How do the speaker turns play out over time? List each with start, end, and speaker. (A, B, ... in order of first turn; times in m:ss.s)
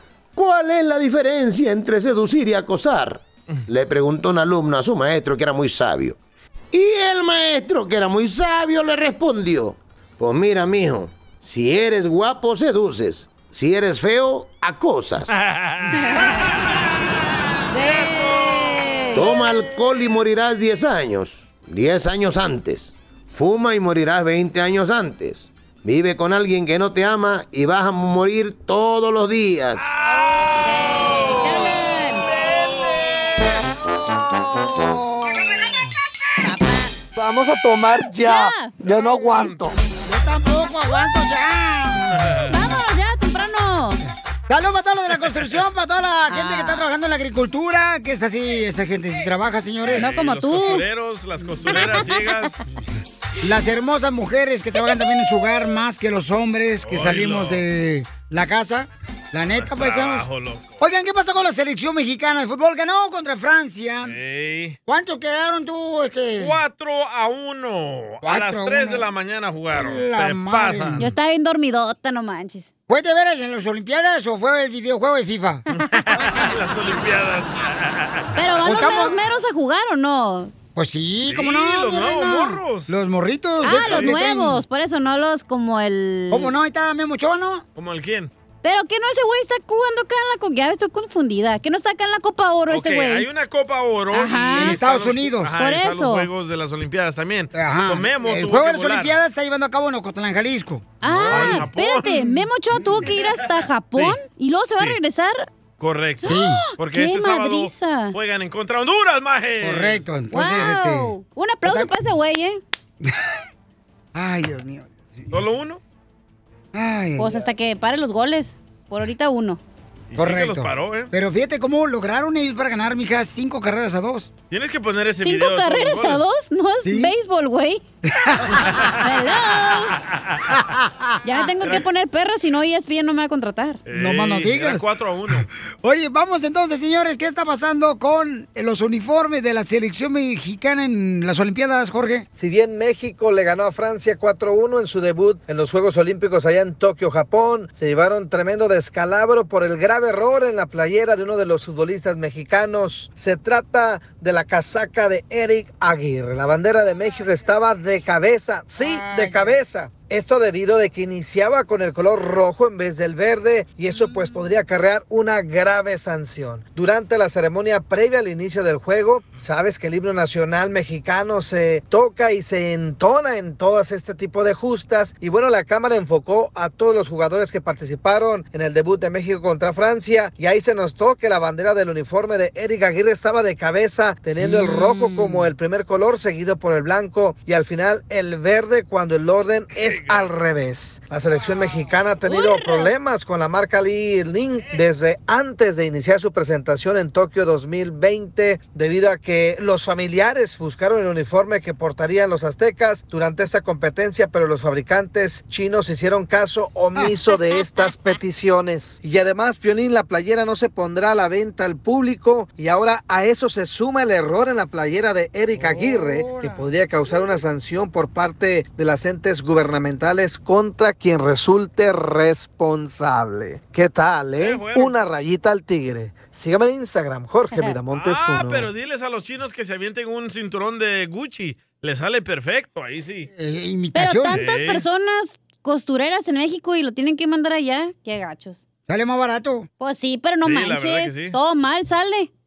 0:00.3-0:06.2 A
0:06.7-0:15.4 A
0:15.5-0:16.0 B
0:15.9-0:16.4 C
0:17.7-0:19.2 C
0:19.1-0:29.9 A
0:30.6-0:32.3 C
0:34.3-0:35.7 D
0:36.4-0:36.9 C
0:37.2-0:39.7 E
0:38.2-0:38.9 C
0:39.0-0:39.7 B
0:40.0-0:42.4 D
0:42.5-0:44.0 C
0:44.5-0:50.1 D
0:46.3-0:46.9 C
0:49.9-0:52.5 B
0:50.0-0:50.8 C
0:51.7-0:52.0 C
0:53.4-1:00.3 D
0:56.8-0:57.6 B
0:59.6-1:00.8 B
1:00.8-1:04.2 D
1:04.0-1:04.8 B
1:04.9-1:06.6 D
1:06.4-1:11.0 B
1:08.2-1:09.1 D
1:09.7-1:11.1 D
1:11.0-1:12.7 C
1:12.9-1:15.6 D
1:15.9-1:18.3 B
1:18.4-1:20.5 C
1:18.6-1:19.2 D
1:20.7-1:24.6 D
1:21.2-1:22.9 B
1:23.6-1:26.5 C
1:23.8-1:24.1 B
1:26.3-1:27.6 D
1:27.8-1:28.3 B
1:28.6-1:33.2 C
1:32.7-1:39.2 B
1:34.1-1:34.8 C
1:34.5-1:35.6 D
1:35.6-1:36.3 C
1:37.5-1:41.6 D
1:41.0-1:45.5 C
1:41.0-1:42.4 B
1:43.9-1:44.2 B
1:45.8-1:50.0 B
1:46.2-1:46.6 D
1:46.2-1:48.1 C
1:49.6-1:51.1 D
1:50.3-1:52.6 C
1:51.6-1:51.9 D
1:54.1-1:55.3 D
1:55.3-1:55.8 B
1:56.7-1:57.5 D
1:57.2-1:59.6 C
2:00.1-2:01.1 B
2:00.2-2:04.3 D
2:04.5-2:06.2 B
2:05.2-2:07.8 C
2:06.8-2:07.1 D
2:08.1-2:08.7 D
2:09.0-2:10.0 C
2:10.1-2:10.4 B
2:10.5-2:11.2 D
2:11.2-2:13.8 C
2:13.9-2:15.5 B
2:13.9-2:22.2 D
2:22.4-3:48.7 F
2:38.8-2:39.6 D
2:43.9-2:44.5 D
3:04.4-3:05.5 D
3:09.8-3:10.3 B
3:12.2-3:12.9 C
3:35.5-3:36.7 D
3:44.4-3:44.9 B
3:47.9-3:53.3 B
3:53.3-3:54.4 D
3:53.9-3:58.6 C
3:54.3-3:54.8 B
3:58.9-3:59.7 D
3:59.8-4:02.3 C
4:00.4-4:01.4 B